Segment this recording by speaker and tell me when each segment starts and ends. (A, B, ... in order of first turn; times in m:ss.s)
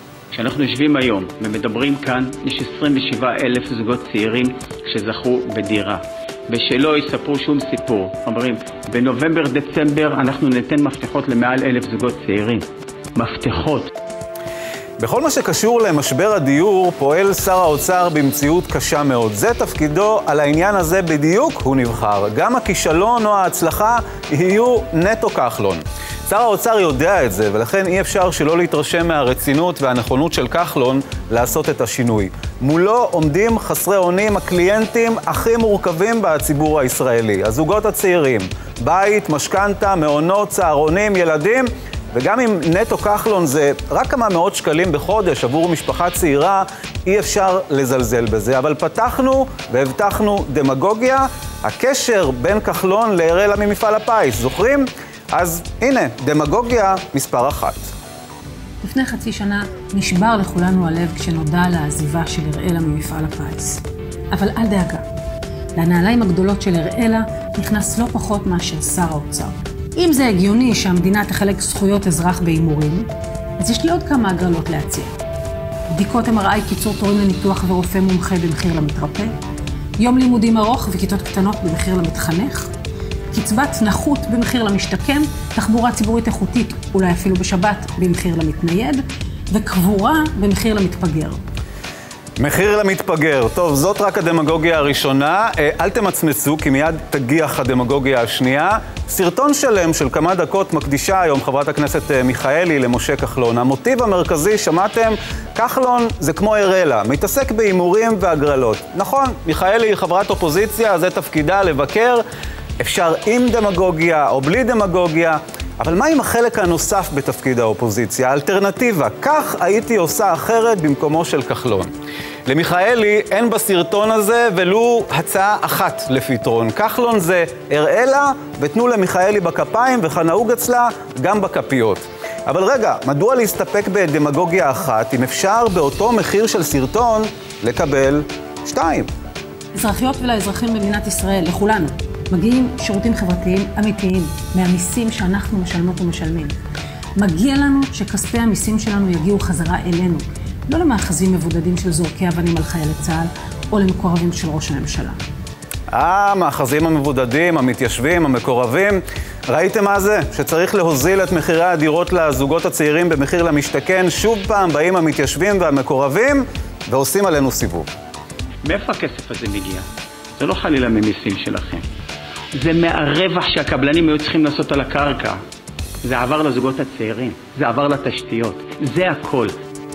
0:00.3-0:13.9 A
0:15.0-0:57.9 B
0:58.8-1:05.0 C
1:05.7-1:15.2 C
1:15.9-1:19.3 C
1:20.0-1:22.7 C
1:23.3-1:31.4 C
1:32.4-1:52.2 B
1:52.8-2:01.9 B
2:02.4-2:19.1 B
2:19.7-2:26.6 C
2:27.2-2:35.2 C
2:35.9-2:47.9 B
2:48.6-2:51.8 A
2:52.5-2:55.4 A
2:56.0-2:59.5 A